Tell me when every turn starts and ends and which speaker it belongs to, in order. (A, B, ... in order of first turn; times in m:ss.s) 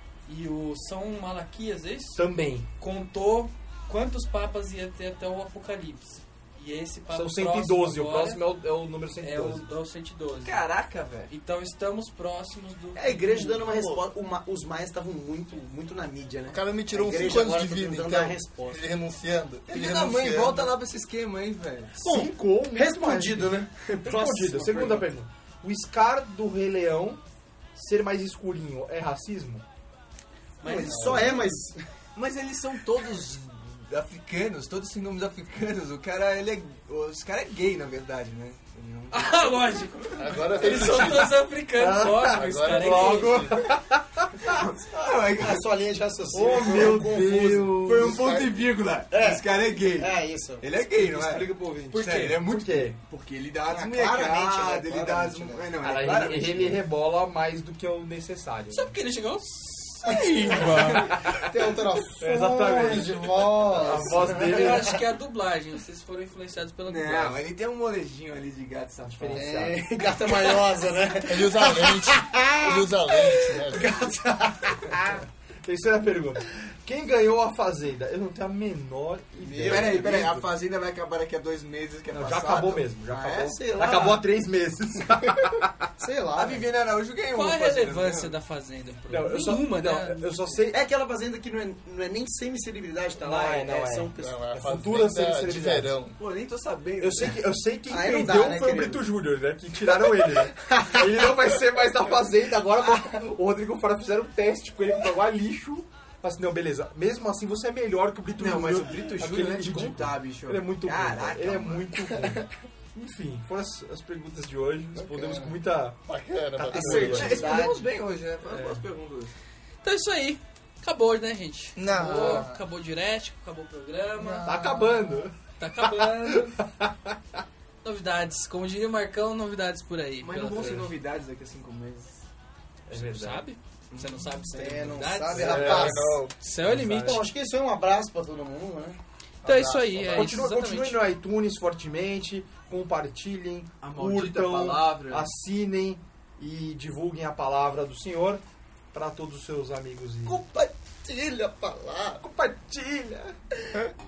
0:00.3-0:02.2 A
0:02.2-0:02.7 B
0:02.8-0:08.4 A
0:07.1-0:09.7 B
0:09.2-0:10.6 A
0:10.4-0:11.3 C
0:11.3-0:13.7 A
0:13.0-0:18.8 D
0:13.7-0:14.0 E
0:16.5-0:20.7 E
0:19.7-0:22.0 C
0:22.0-0:27.2 B
0:22.0-0:25.1 D
0:27.8-0:29.6 B
0:30.6-0:31.9 D
0:30.6-0:31.3 C
0:30.9-0:31.4 E
0:32.2-0:39.7 C
0:39.1-0:43.4 A
0:40.2-0:41.4 E
0:40.8-0:41.1 B
0:41.8-0:44.5 B
0:42.1-0:43.7 E
0:44.4-0:45.6 C
0:45.4-0:50.7 D
0:46.3-0:48.2 B
0:46.7-0:56.8 C
0:51.0-0:53.0 B
0:53.7-0:55.7 D
0:55.8-0:58.9 B
0:58.7-1:01.2 A
1:00.1-1:04.9 D
1:00.5-1:01.4 B
1:00.8-1:01.2 C
1:02.2-1:05.0 B
1:04.3-1:07.4 A
1:06.9-1:09.5 C
1:09.0-1:09.8 B
1:09.3-1:15.2 D
1:11.2-1:14.0 E
1:15.6-1:20.5 B
1:19.4-1:20.0 D
1:19.6-1:22.9 C
1:22.1-1:25.8 B
1:23.1-1:24.3 D
1:26.0-1:26.7 D
1:26.4-1:28.3 C
1:27.3-1:30.2 A
1:29.1-1:30.8 B
1:30.7-1:34.4 D
1:33.2-1:36.0 B
1:34.2-1:36.2 E
1:36.2-1:37.4 C
1:37.0-1:56.0 B
1:37.9-1:39.1 D
1:40.0-1:41.3 D
1:48.4-1:51.9 C
1:52.2-1:52.4 D
1:55.0-1:55.6 D
1:56.1-1:57.5 E
1:56.6-1:57.5 B
1:56.7-1:57.9 D
1:56.8-1:59.4 C
1:58.5-1:58.8 B
1:59.8-2:04.6 A
2:01.8-2:02.6 E
2:04.2-2:05.3 E
2:04.4-2:06.1 B
2:05.6-2:06.6 A
2:06.7-2:07.2 B
2:07.8-2:10.9 A
2:10.2-2:12.2 C
2:12.9-2:13.4 B
2:12.9-2:17.2 A
2:13.9-2:14.2 C
2:14.6-2:16.2 D
2:15.4-2:16.3 E
2:15.4-2:17.2 B
2:17.0-2:19.0 D
2:19.4-2:20.3 E
2:19.4-2:21.0 A
2:20.0-2:28.4 B
2:23.8-2:25.3 C
2:28.9-2:30.4 B
2:30.2-2:32.2 E
2:32.2-2:33.4 B